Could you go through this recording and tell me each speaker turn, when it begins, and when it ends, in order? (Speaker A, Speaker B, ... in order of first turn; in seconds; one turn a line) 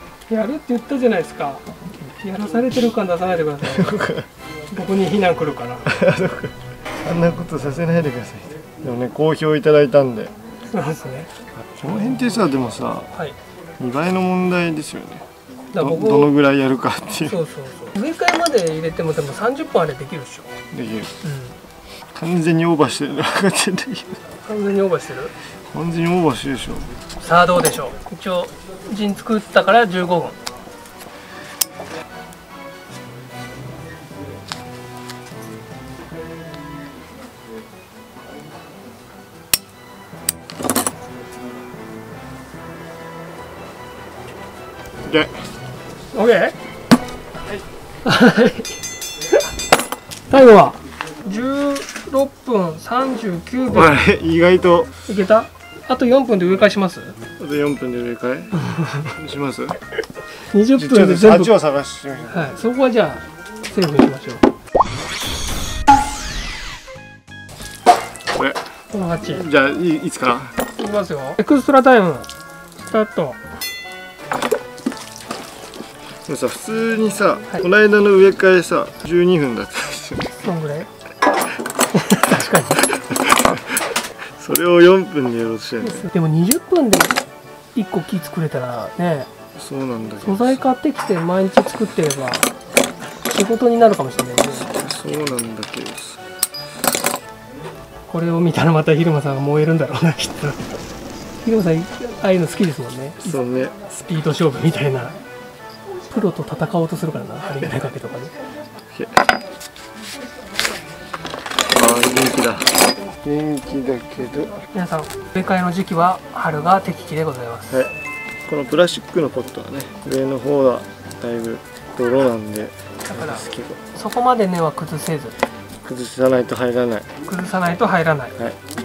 Speaker A: 0.3-4.0
Speaker B: 3.6-4.3
Speaker A: 4.7-5.9
Speaker B: 5.8-10.3
Speaker A: 10.7-11.3
Speaker B: 11.8-13.1
Speaker B: 13.8-17.4
Speaker A: 15.7-16.3
Speaker A: 17.2-20.5
Speaker B: 20.7-21.1
Speaker A: 21.2-21.6
Speaker B: 22.1-24.1
Speaker A: 24.4-25.3
Speaker B: 25.7-26.9
Speaker A: 27.2-30.4
Speaker B: 45.0-45.4
Speaker A: 46.1-46.5
Speaker A: 48.0-48.8
Speaker A: 50.3-54.0
Speaker B: 53.7-54.9
Speaker A: 55.1-57.1
Speaker B: 57.4-58.6
Speaker A: 58.6-59.1
Speaker B: 59.1-59.8
Speaker A: 60.4-61.5
Speaker B: 60.8-62.5
Speaker A: 62.3-64.4
Speaker B: 68.3-68.6
Speaker A: 68.9-69.5
Speaker B: 69.2-70.5
Speaker A: 70.8-72.3
Speaker A: 72.8-73.4
Speaker B: 76.2-80.3
Speaker A: 80.4-80.9
Speaker A: 81.9-82.8
Speaker B: 82.9-83.8
Speaker B: 84.3-86.1
Speaker A: 85.8-87.2
Speaker A: 87.7-89.3
Speaker B: 89.5-90.6
Speaker A: 90.2-92.5
Speaker A: 93.2-94.7
Speaker B: 94.5-96.2
Speaker A: 98.1-100.7
Speaker A: 101.4-105.2
Speaker B: 103.2-103.8
Speaker A: 106.1-108.3
Speaker B: 108.9-109.2
Speaker B: 111.7-114.6
Speaker A: 114.7-117.8
Speaker B: 118.5-123.8
Speaker A: 123.1-125.3
Speaker B: 125.8-127.1
Speaker A: 127.2-128.4